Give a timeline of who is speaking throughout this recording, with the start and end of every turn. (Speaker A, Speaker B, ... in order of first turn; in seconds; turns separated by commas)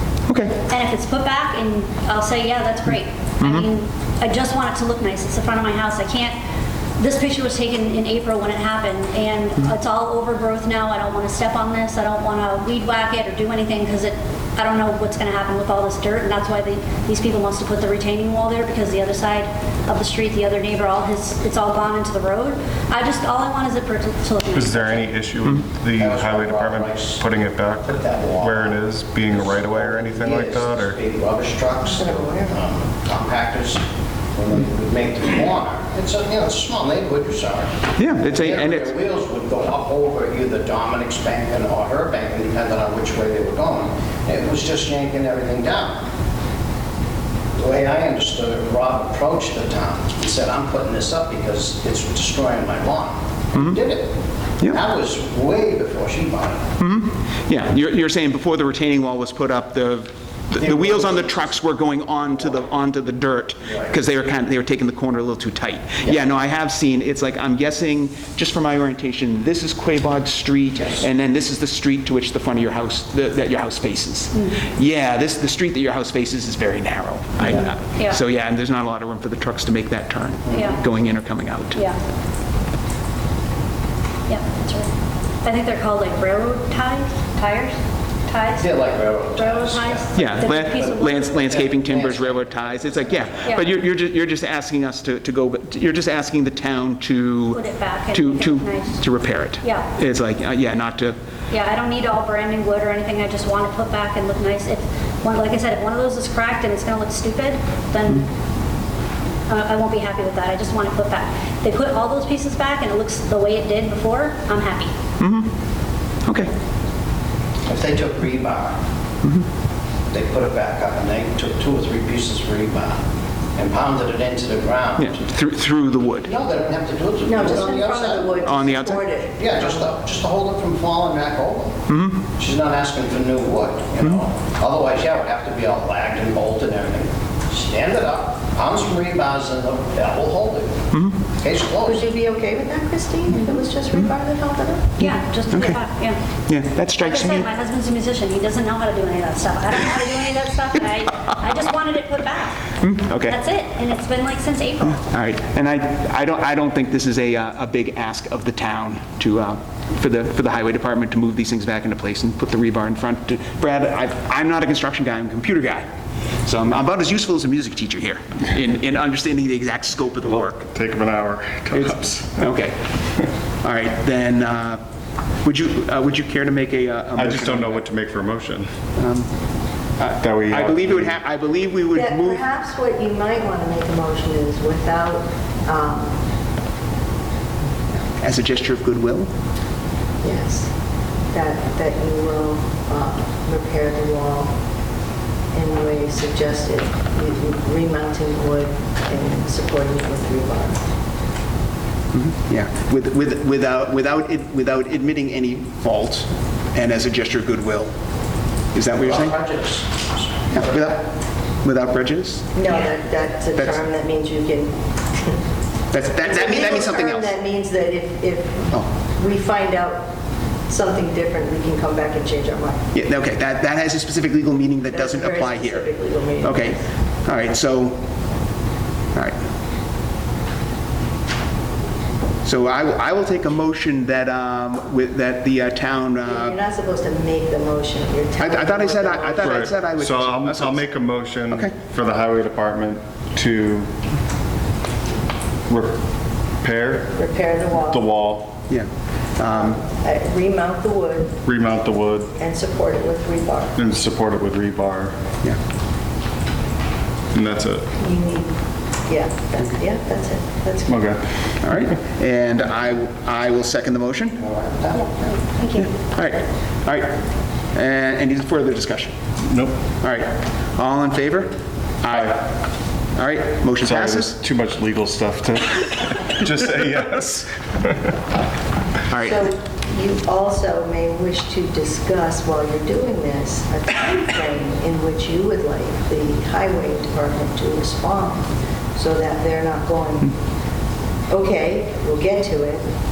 Speaker A: 0.3-0.6, Speaker B: 0.6-6.3, Speaker B: 7.0-25.1, Speaker C: 24.5-30.9, Speaker D: 26.0-46.1, Speaker E: 31.8-32.6, Speaker A: 38.0-38.9, Speaker D: 47.5-56.7, Speaker A: 56.8-81.8, Speaker D: 60.6-61.3, Speaker B: 74.3-74.6, Speaker B: 77.9-78.2, Speaker D: 80.5-80.8, Speaker B: 80.5-80.8, Speaker B: 84.3-84.9, Speaker B: 85.4-88.7, Speaker D: 88.6-93.5, Speaker B: 89.3-91.5, Speaker A: 90.1-97.6, Speaker B: 97.5-99.0, Speaker A: 98.1-101.2, Speaker B: 99.6-99.9, Speaker B: 101.5-108.3, Speaker B: 109.5-114.9, Speaker A: 115.2-115.5, Speaker A: 116.2-116.5, Speaker D: 117.7-118.8, Speaker D: 120.1-123.0, Speaker D: 123.5-125.3, Speaker A: 125.0-126.3, Speaker D: 126.2-128.5, Speaker E: 127.2-129.7, Speaker A: 128.4-129.1, Speaker D: 129.4-131.8, Speaker A: 131.9-132.2, Speaker D: 132.3-140.8, Speaker A: 140.9-141.2, Speaker D: 141.4-142.1, Speaker E: 141.8-144.9, Speaker A: 145.0-145.8, Speaker B: 145.0-146.2, Speaker A: 146.5-147.4, Speaker B: 146.9-152.7, Speaker A: 152.8-153.4, Speaker B: 153.2-155.0, Speaker A: 155.0-165.9, Speaker A: 166.4-170.6, Speaker C: 170.3-172.4, Speaker A: 171.7-172.8, Speaker A: 173.6-174.8, Speaker A: 175.4-177.8, Speaker C: 177.2-178.7, Speaker A: 178.9-179.3, Speaker A: 180.0-182.4, Speaker C: 180.2-181.2, Speaker E: 181.9-186.1, Speaker A: 188.2-189.3, Speaker E: 190.2-190.7, Speaker E: 191.3-194.5, Speaker E: 195.5-200.8, Speaker A: 202.1-207.9, Speaker A: 208.7-209.3, Speaker D: 208.9-210.9, Speaker A: 210.5-211.1, Speaker A: 211.6-212.8, Speaker E: 212.5-215.3, Speaker A: 213.5-213.8, Speaker A: 215.9-217.3, Speaker E: 216.2-220.1, Speaker E: 220.7-222.8, Speaker A: 222.9-228.0, Speaker E: 224.9-226.8, Speaker A: 232.4-236.6, Speaker E: 236.2-239.7, Speaker A: 238.4-240.9, Speaker C: 239.4-243.9, Speaker C: 245.7-246.0, Speaker C: 246.6-247.2, Speaker E: 247.1-248.0, Speaker C: 247.8-248.5, Speaker A: 248.7-249.8, Speaker E: 249.5-251.4, Speaker C: 251.4-252.3, Speaker E: 252.4-253.8, Speaker C: 253.7-255.2, Speaker C: 257.3-257.9, Speaker E: 258.0-261.1, Speaker C: 260.9-261.3, Speaker A: 261.6-264.4, Speaker D: 264.4-265.2, Speaker A: 265.7-267.2, Speaker A: 267.7-269.1, Speaker C: 269.5-269.7, Speaker A: 270.0-272.5, Speaker A: 273.1-274.4, Speaker C: 273.8-278.1, Speaker A: 279.1-279.4, Speaker E: 279.1-290.4, Speaker E: 291.3-292.8